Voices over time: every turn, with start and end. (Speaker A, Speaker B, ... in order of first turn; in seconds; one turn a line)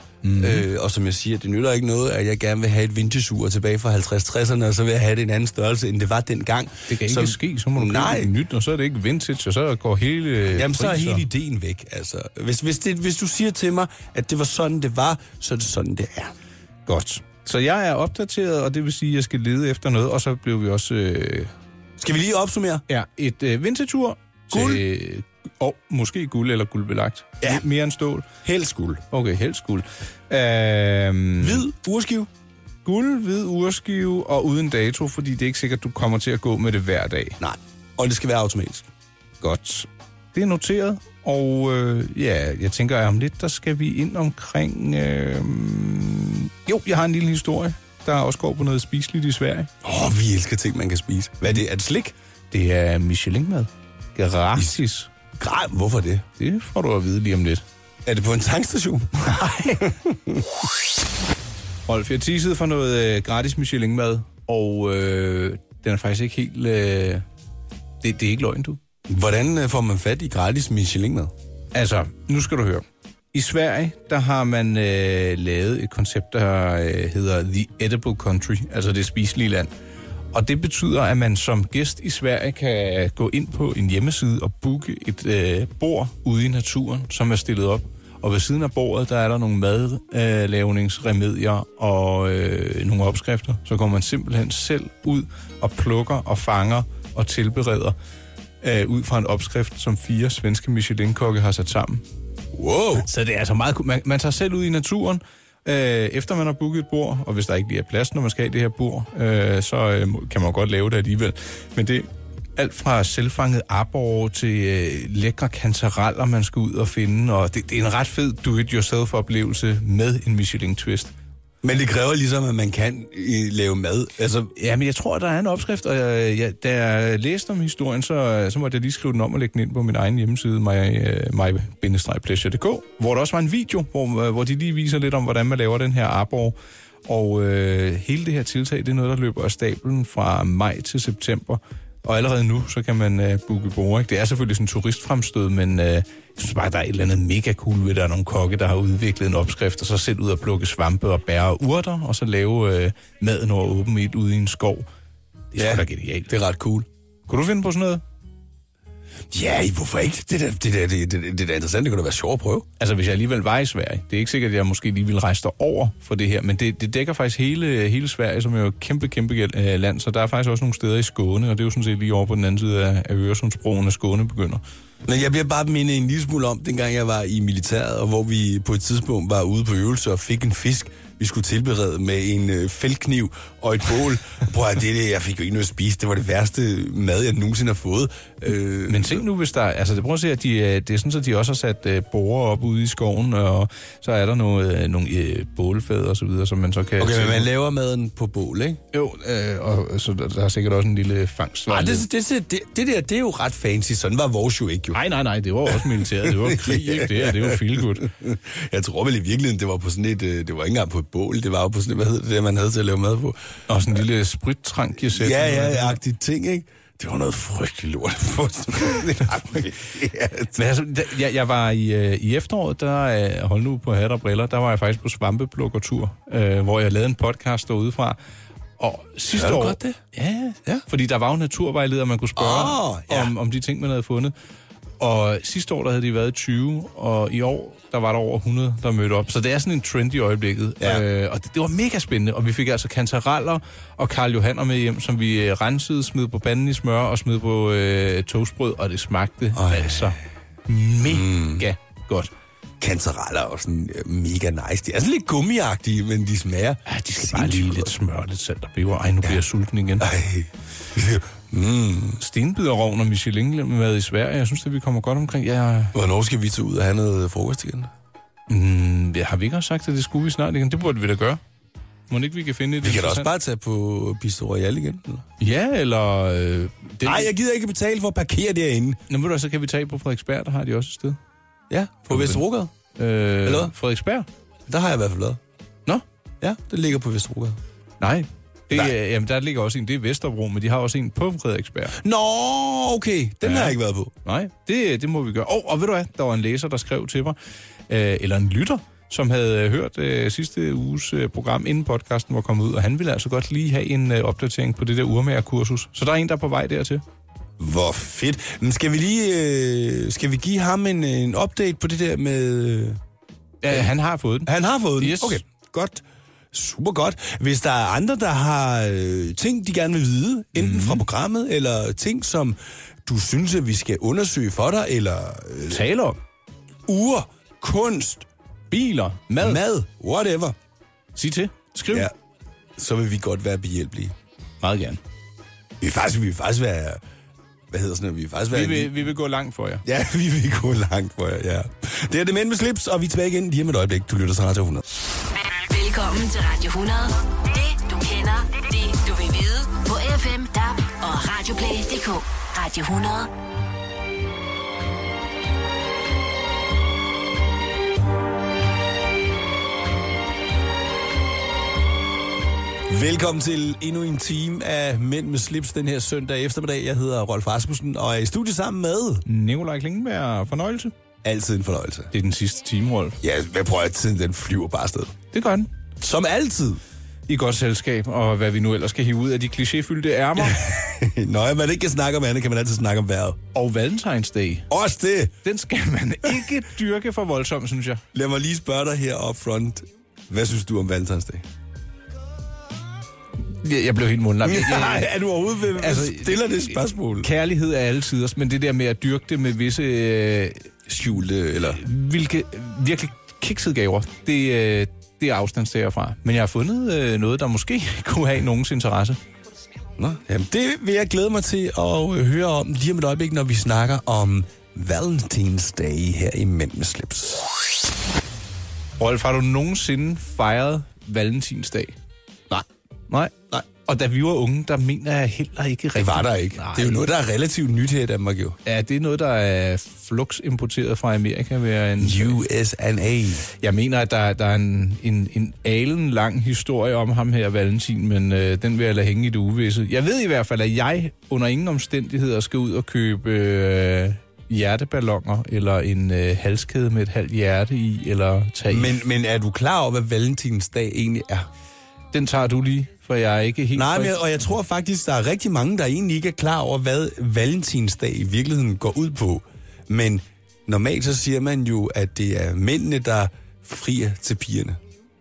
Speaker A: 0.2-0.6
Speaker B: 0.4-8.3
Speaker A: 6.9-11.2
Speaker B: 10.5-16.3
Speaker A: 16.9-21.5
Speaker B: 22.0-22.8
Speaker A: 22.9-28.3
Speaker B: 24.5-24.8
Speaker B: 28.4-29.0
Speaker A: 29.1-31.6
Speaker B: 31.4-32.3
Speaker A: 32.8-37.4
Speaker B: 37.4-38.9
Speaker A: 39.4-49.7
Speaker B: 49.8-52.1
Speaker A: 52.5-55.1
Speaker B: 55.4-56.2
Speaker A: 56.4-57.6
Speaker B: 58.0-60.5
Speaker A: 59.3-59.8
Speaker A: 61.9-67.2
Speaker A: 68.0-68.8
Speaker B: 69.1-71.3
Speaker A: 71.7-79.7
Speaker A: 80.3-97.9
Speaker A: 98.6-102.0
Speaker B: 102.5-103.1
Speaker A: 103.0-121.1
Speaker B: 121.6-124.5
Speaker A: 124.5-154.8
Speaker A: 155.5-156.3
Speaker B: 155.6-156.9
Speaker A: 157.3-158.0
Speaker B: 159.3-162.7
Speaker A: 162.8-174.6
Speaker B: 175.1-189.2
Speaker A: 188.9-197.5
Speaker B: 197.0-198.8
Speaker A: 198.9-202.0
Speaker B: 201.7-205.0
Speaker A: 204.9-208.1
Speaker B: 205.7-213.4
Speaker A: 213.7-216.0
Speaker B: 215.1-220.6
Speaker A: 220.5-228.2
Speaker A: 228.8-234.3
Speaker B: 229.3-230.0
Speaker B: 232.3-233.3
Speaker A: 235.0-252.3
Speaker B: 240.8-241.0
Speaker B: 249.5-250.1
Speaker B: 251.1-251.7
Speaker B: 252.8-257.9
Speaker A: 256.9-260.1
Speaker B: 260.0-262.2
Speaker A: 262.2-265.9
Speaker B: 265.9-267.9
Speaker A: 268.5-271.4
Speaker A: 272.1-273.3
Speaker B: 272.8-275.3
Speaker A: 275.4-277.3
Speaker B: 277.0-279.0
Speaker A: 279.1-281.2
Speaker B: 281.7-282.7
Speaker A: 282.1-282.4
Speaker A: 282.9-284.3
Speaker B: 283.4-283.7
Speaker B: 284.7-285.4
Speaker B: 286.4-287.6
Speaker A: 288.0-292.0
Speaker B: 292.0-294.1
Speaker A: 293.4-297.4
Speaker A: 297.9-307.0
Speaker B: 307.6-313.0
Speaker A: 313.6-315.4
Speaker B: 314.4-325.9
Speaker A: 320.6-321.0
Speaker A: 325.7-326.2
Speaker B: 326.9-328.3
Speaker A: 328.7-329.6
Speaker B: 329.4-330.5
Speaker A: 331.1-332.1
Speaker B: 332.8-334.1
Speaker A: 334.6-335.0
Speaker B: 335.8-337.0
Speaker B: 337.7-338.9
Speaker A: 338.5-339.8
Speaker B: 339.8-344.8
Speaker C: 345.4-353.3
Speaker B: 362.9-369.2
Speaker A: 369.2-370.9
Speaker B: 371.2-372.1
Speaker A: 372.1-373.2
Speaker B: 373.2-375.2
Speaker A: 375.3-375.7
Speaker B: 376.0-376.8
Speaker A: 377.3-380.8
Speaker B: 380.4-383.4
Speaker A: 383.5-384.7
Speaker B: 384.7-385.4
Speaker A: 385.4-388.0
Speaker B: 388.1-391.4
Speaker A: 393.4-395.2
Speaker B: 394.4-397.3
Speaker A: 395.7-400.7
Speaker B: 400.9-401.8
Speaker A: 401.6-409.2
Speaker B: 410.0-417.4
Speaker A: 419.0-421.9
Speaker A: 423.1-427.0
Speaker B: 425.9-428.6
Speaker A: 428.6-432.4
Speaker B: 432.0-433.5
Speaker A: 433.5-449.0
Speaker B: 448.7-451.5
Speaker A: 452.1-454.2
Speaker B: 453.7-464.8